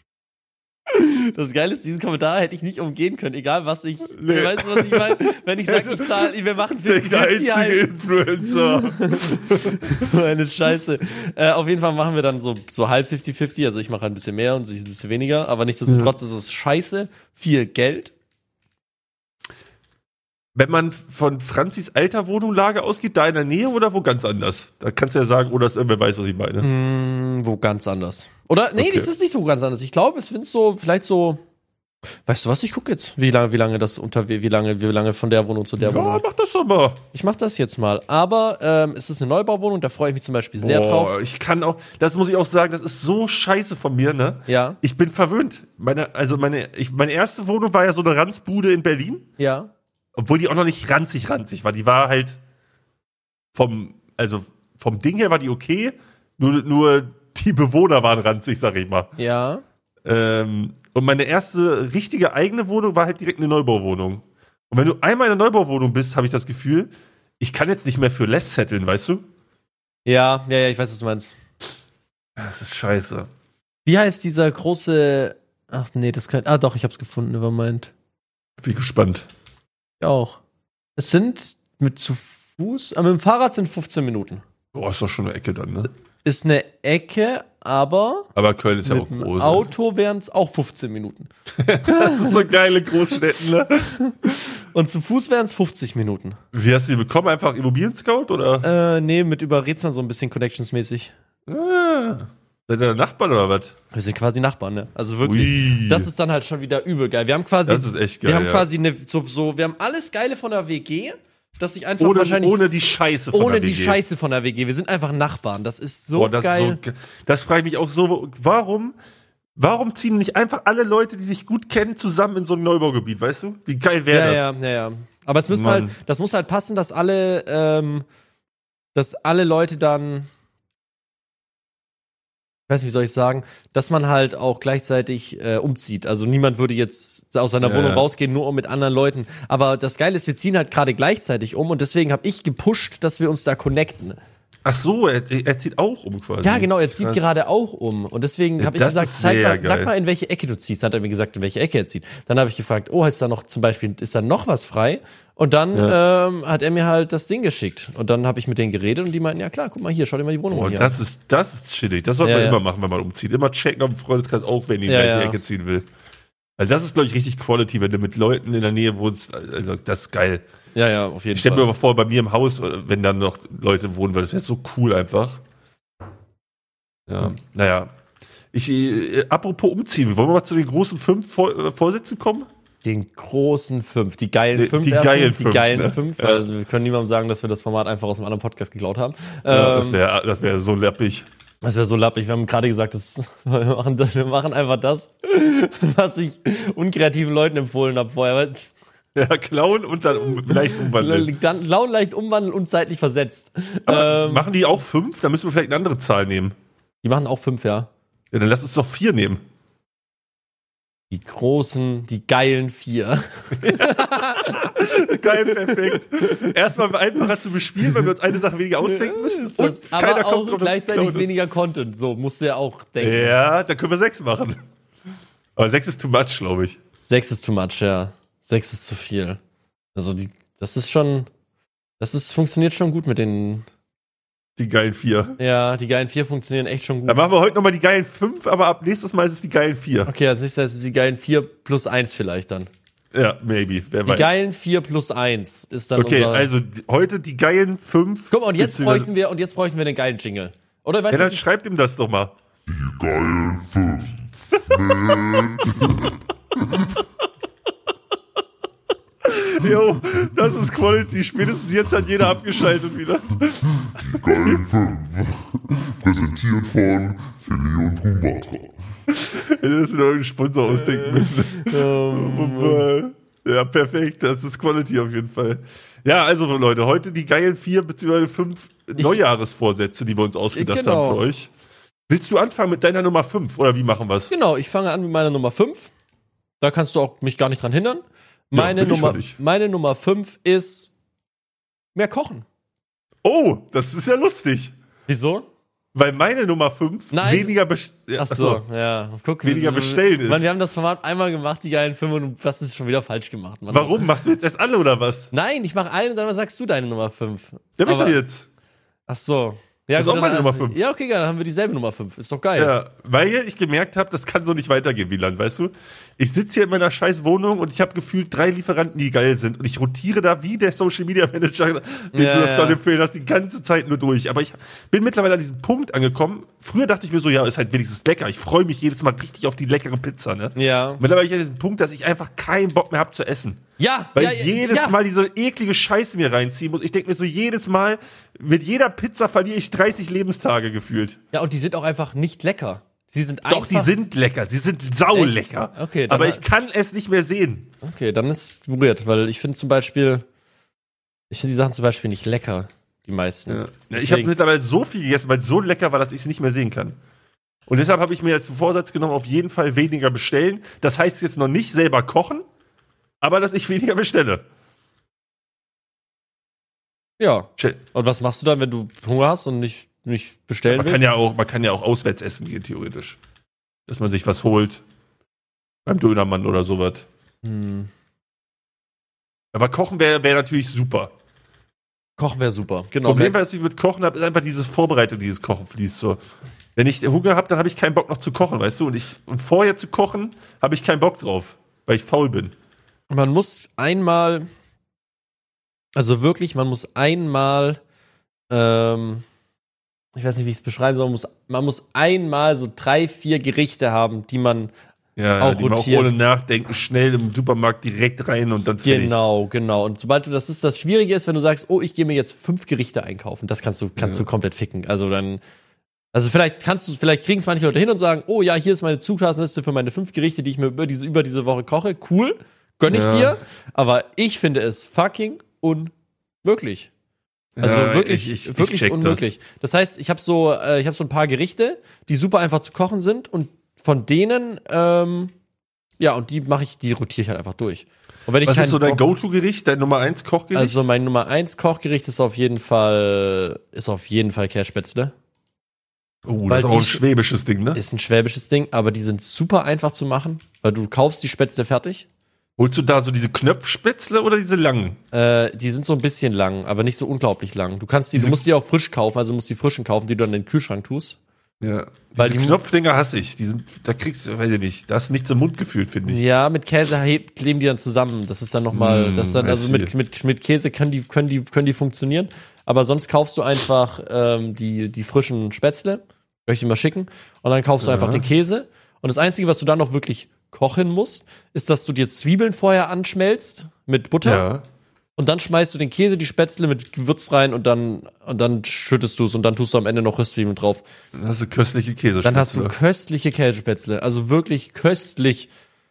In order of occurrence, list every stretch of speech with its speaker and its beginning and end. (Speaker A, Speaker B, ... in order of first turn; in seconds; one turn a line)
Speaker A: 0.9-18.1
Speaker B: 4.1-10.1
Speaker B: 20.6-26.7
Speaker A: 26.6-31.4
Speaker B: 28.8-29.1
Speaker A: 32.2-36.2
Speaker B: 35.8-37.0
Speaker A: 37.1-41.1
Speaker B: 40.6-49.3
Speaker A: 44.5-44.8
Speaker A: 49.4-49.7
Speaker B: 50.1-52.4
Speaker B: 53.5-59.1
Speaker A: 59.2-59.6
Speaker B: 60.0-69.2
Speaker A: 70.0-71.3
Speaker B: 72.4-73.3
Speaker A: 73.8-77.9
Speaker B: 78.6-79.3
Speaker A: 80.0-80.4
Speaker A: 81.0-84.4
Speaker B: 84.7-85.9
Speaker A: 86.2-88.3
Speaker B: 88.3-89.7
Speaker A: 88.8-91.3
Speaker B: 91.5-94.0
Speaker A: 91.8-92.5
Speaker A: 94.0-96.4
Speaker B: 96.5-98.7
Speaker A: 98.6-101.1
Speaker B: 101.5-103.7
Speaker A: 103.9-112.6
Speaker B: 105.2-106.1
Speaker B: 107.7-108.7
Speaker B: 112.0-114.0
Speaker A: 113.3-116.8
Speaker B: 116.1-118.9
Speaker B: 119.5-124.5
Speaker A: 124.1-128.1
Speaker B: 125.5-125.9
Speaker A: 128.9-130.3
Speaker A: 132.7-144.2
Speaker B: 137.6-138.1
Speaker B: 144.6-147.4
Speaker A: 146.4-160.9
Speaker B: 148.6-149.9
Speaker B: 160.5-165.8
Speaker A: 162.2-162.6
Speaker A: 164.9-165.4
Speaker B: 166.6-170.4
Speaker A: 170.7-171.7
Speaker B: 171.3-175.4
Speaker B: 177.1-177.9
Speaker B: 178.5-182.5
Speaker A: 182.8-190.0
Speaker B: 184.5-186.4
Speaker B: 189.5-191.2
Speaker A: 191.6-198.7
Speaker B: 199.1-201.3
Speaker A: 200.2-204.5
Speaker B: 203.9-206.5
Speaker A: 207.0-207.9
Speaker B: 208.3-209.4
Speaker A: 211.1-216.0
Speaker B: 213.5-221.3
Speaker A: 218.8-223.3
Speaker B: 223.0-224.6
Speaker B: 225.6-226.8
Speaker A: 227.1-229.4
Speaker A: 229.9-231.3
Speaker A: 232.0-233.7
Speaker B: 234.6-235.4
Speaker A: 235.4-237.2
Speaker B: 237.1-240.1
Speaker A: 240.1-242.7
Speaker B: 243.1-244.3
Speaker A: 244.1-246.5
Speaker B: 245.9-249.1
Speaker A: 248.3-251.4
Speaker B: 251.1-252.3
Speaker C: 252.7-256.1
Speaker B: 259.2-263.6
Speaker C: 263.9-268.8
Speaker B: 269.1-281.5
Speaker A: 270.9-272.9
Speaker A: 280.5-281.2
Speaker B: 282.1-284.3
Speaker A: 284.3-285.9
Speaker A: 286.6-290.9
Speaker B: 288.5-289.4
Speaker A: 291.9-292.4
Speaker B: 293.2-294.7
Speaker A: 295.1-295.5
Speaker B: 295.9-298.6
Speaker A: 297.1-297.5
Speaker A: 298.2-304.1
Speaker B: 299.4-300.5
Speaker B: 303.7-305.3
Speaker A: 305.3-308.2
Speaker B: 307.8-308.5
Speaker A: 309.1-312.7
Speaker B: 309.9-310.8
Speaker B: 312.6-333.6
Speaker A: 322.1-322.8
Speaker A: 330.5-331.0
Speaker A: 333.8-335.0
Speaker B: 334.1-341.2
Speaker A: 341.3-343.9
Speaker B: 343.5-347.7
Speaker A: 345.1-346.4
Speaker A: 347.8-350.2
Speaker A: 351.3-354.3
Speaker B: 353.5-356.9
Speaker B: 357.7-362.4
Speaker B: 363.2-364.4
Speaker A: 367.2-371.0
Speaker B: 370.7-373.2
Speaker B: 373.9-374.8
Speaker B: 375.9-377.1
Speaker A: 377.4-377.9
Speaker B: 379.5-381.1
Speaker A: 382.2-383.4
Speaker B: 383.0-386.2
Speaker B: 386.8-392.5
Speaker A: 393.1-394.4
Speaker A: 395.9-397.8
Speaker A: 398.5-399.2
Speaker A: 400.1-404.7
Speaker B: 405.2-409.2
Speaker A: 405.4-406.1
Speaker A: 408.8-415.4
Speaker B: 414.0-414.2
Speaker A: 416.1-425.9
Speaker B: 422.9-423.4
Speaker A: 426.4-426.9
Speaker B: 427.6-429.3
Speaker A: 427.6-435.3
Speaker A: 436.0-439.0
Speaker B: 438.4-440.8
Speaker A: 440.5-445.1
Speaker B: 446.2-447.8
Speaker A: 446.5-447.0
Speaker A: 447.7-452.1
Speaker B: 452.6-455.0
Speaker A: 455.1-461.2
Speaker B: 458.1-458.4
Speaker B: 461.6-466.2
Speaker A: 462.2-462.6
Speaker A: 466.1-484.4
Speaker B: 468.7-469.9
Speaker B: 477.8-478.3
Speaker B: 484.2-484.6
Speaker A: 485.2-490.8
Speaker B: 491.1-492.7
Speaker A: 492.2-495.5